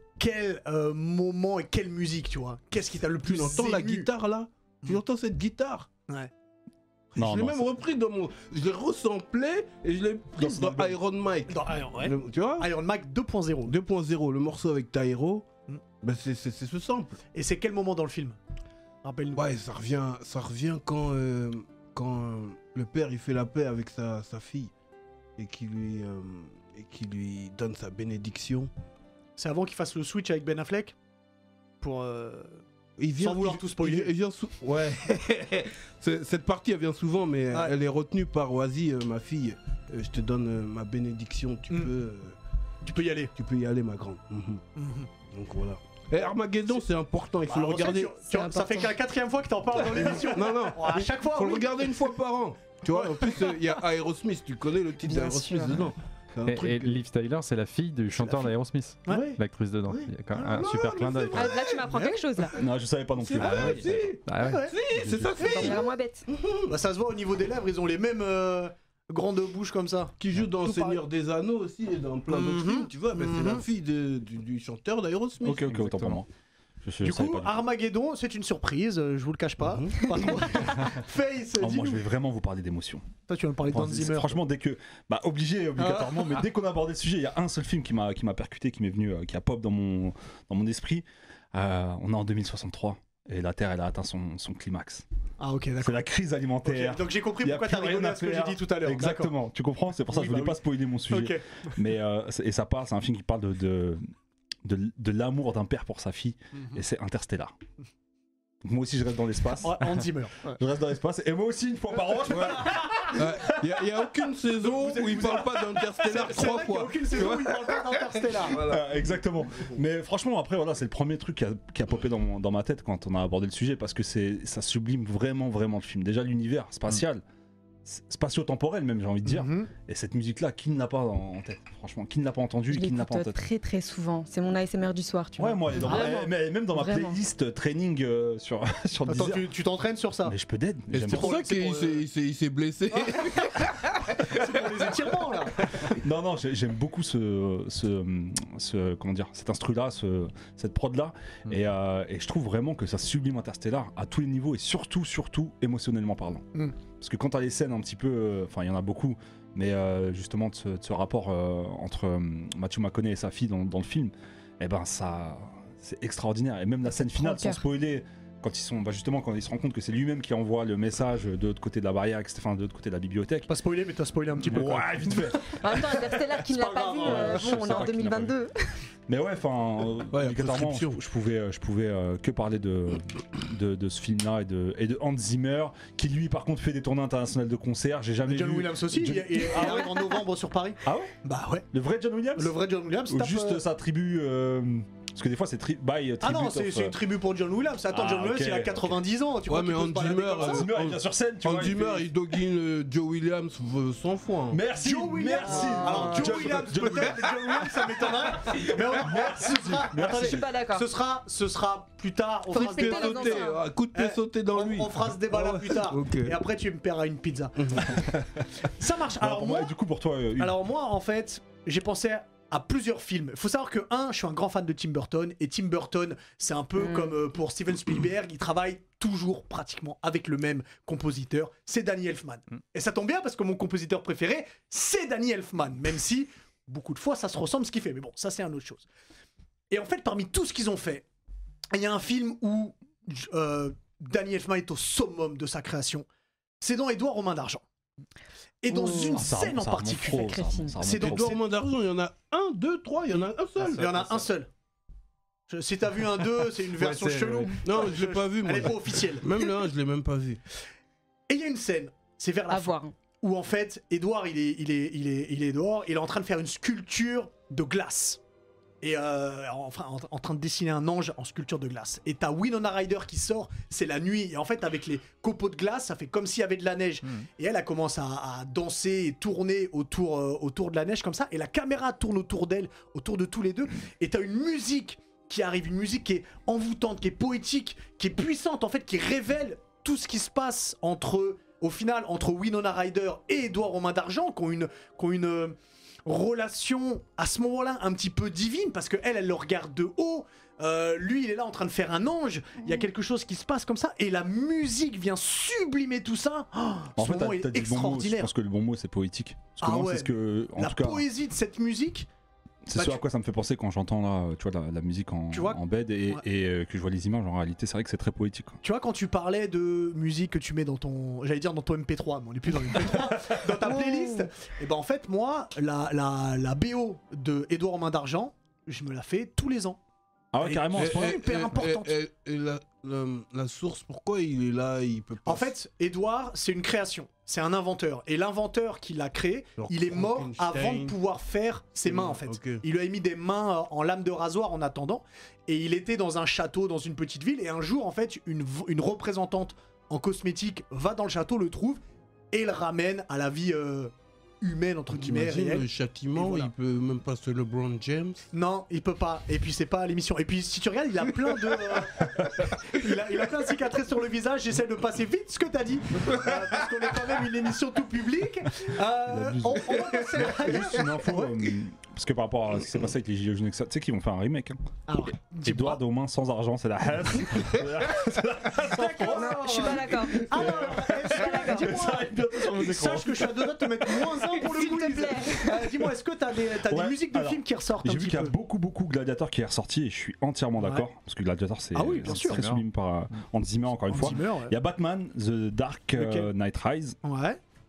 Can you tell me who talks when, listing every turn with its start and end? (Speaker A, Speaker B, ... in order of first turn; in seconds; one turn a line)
Speaker A: 0.2-4.1
Speaker B: 3.2-5.9
Speaker B: 7.1-12.7
Speaker C: 7.2-7.7
Speaker C: 10.4-10.9
Speaker A: 10.5-10.8
Speaker A: 11.5-13.8
Speaker B: 13.7-15.5
Speaker B: 16.0-17.2
Speaker A: 17.3-18.4
Speaker A: 19.0-19.4
Speaker B: 19.4-24.7
Speaker B: 25.4-28.7
Speaker A: 29.4-30.9
Speaker A: 31.8-32.6
Speaker B: 33.0-42.4
Speaker A: 33.2-34.1
Speaker A: 42.8-43.3
Speaker B: 43.4-44.6
Speaker A: 44.8-45.1
Speaker B: 45.2-48.2
Speaker A: 47.5-51.9
Speaker D: 48.3-48.9
Speaker B: 49.8-57.0
Speaker A: 52.9-53.6
Speaker D: 55.0-55.8
Speaker E: 56.5-61.5
Speaker B: 58.1-58.5
Speaker A: 59.1-59.4
Speaker B: 59.9-61.8
Speaker A: 60.3-62.5
Speaker D: 61.3-62.6
Speaker C: 62.5-64.1
Speaker B: 63.2-66.8
Speaker E: 63.4-65.3
Speaker A: 64.4-64.8
Speaker A: 65.4-65.8
Speaker C: 65.4-65.7
Speaker D: 65.5-66.3
Speaker A: 66.7-71.0
Speaker B: 70.2-75.8
Speaker A: 72.3-73.6
Speaker C: 75.4-76.3
Speaker E: 75.7-76.2
Speaker C: 76.8-77.6
Speaker A: 77.0-82.0
Speaker B: 79.6-80.5
Speaker C: 81.6-83.0
Speaker A: 83.3-84.4
Speaker C: 83.7-95.0
Speaker A: 85.8-86.5
Speaker A: 95.4-96.1
Speaker C: 95.8-104.0
Speaker A: 96.6-99.3
Speaker A: 100.1-101.4
Speaker C: 104.7-107.5
Speaker C: 108.6-110.0
Speaker A: 109.6-110.6
Speaker C: 110.5-113.5
Speaker B: 112.3-112.6
Speaker A: 112.6-113.0
Speaker B: 113.1-119.7
Speaker A: 114.6-118.7
Speaker C: 118.7-127.2
Speaker C: 127.8-133.5
Speaker A: 129.2-129.7
Speaker D: 132.7-137.2
Speaker C: 135.4-139.5
Speaker A: 135.8-136.3
Speaker A: 139.1-140.3
Speaker C: 140.2-141.4
Speaker B: 140.9-144.7
Speaker A: 141.1-142.1
Speaker A: 142.9-145.7
Speaker B: 145.6-146.0
Speaker C: 146.0-156.4
Speaker C: 157.0-173.5
Speaker D: 167.0-167.6
Speaker A: 173.5-175.4
Speaker C: 174.5-176.3
Speaker D: 175.5-178.6
Speaker A: 176.4-177.9
Speaker C: 177.0-178.3
Speaker C: 179.1-190.2
Speaker B: 180.1-181.0
Speaker A: 188.3-191.7
Speaker C: 190.8-191.1
Speaker C: 191.7-197.0
Speaker A: 192.4-193.6
Speaker A: 196.2-200.7
Speaker C: 197.9-199.0
Speaker B: 199.5-204.7
Speaker C: 200.4-202.1
Speaker C: 204.5-210.5
Speaker A: 204.8-218.0
Speaker B: 205.4-206.9
Speaker D: 210.0-210.9
Speaker D: 212.5-213.6
Speaker B: 212.5-216.4
Speaker B: 217.6-217.9
Speaker C: 217.9-218.4
Speaker A: 218.7-219.7
Speaker C: 219.2-220.6
Speaker A: 220.4-238.9
Speaker D: 226.8-227.2
Speaker A: 239.7-241.1
Speaker A: 241.7-246.1
Speaker A: 246.6-247.6
Speaker A: 248.6-251.4
Speaker D: 248.7-249.2
Speaker C: 248.8-251.3
Speaker D: 250.2-250.8
Speaker B: 251.0-254.3
Speaker A: 253.6-254.5
Speaker A: 255.5-259.5
Speaker E: 256.8-257.6
Speaker B: 257.6-260.4
Speaker A: 261.3-268.2
Speaker D: 262.5-262.9
Speaker A: 268.8-308.3
Speaker C: 307.0-311.1
Speaker A: 309.6-312.1
Speaker C: 312.7-318.6
Speaker A: 312.7-313.0
Speaker A: 315.3-316.2
Speaker A: 318.6-329.8
Speaker C: 322.8-323.5
Speaker D: 323.7-324.3
Speaker C: 330.3-331.5
Speaker A: 330.4-332.0
Speaker B: 330.7-335.5
Speaker A: 335.2-351.8
Speaker B: 339.6-341.0
Speaker B: 341.9-342.6
Speaker A: 352.3-356.5
Speaker B: 354.9-358.2
Speaker A: 358.3-371.4
Speaker C: 369.1-374.6
Speaker A: 374.9-375.8
Speaker C: 375.4-384.2
Speaker A: 378.6-388.3
Speaker D: 379.0-380.5
Speaker D: 381.1-381.8
Speaker D: 384.3-385.6
Speaker C: 386.6-397.0
Speaker A: 390.6-390.9
Speaker A: 391.7-392.4
Speaker E: 391.9-392.6
Speaker A: 393.9-394.6
Speaker A: 395.9-396.3
Speaker A: 397.0-397.4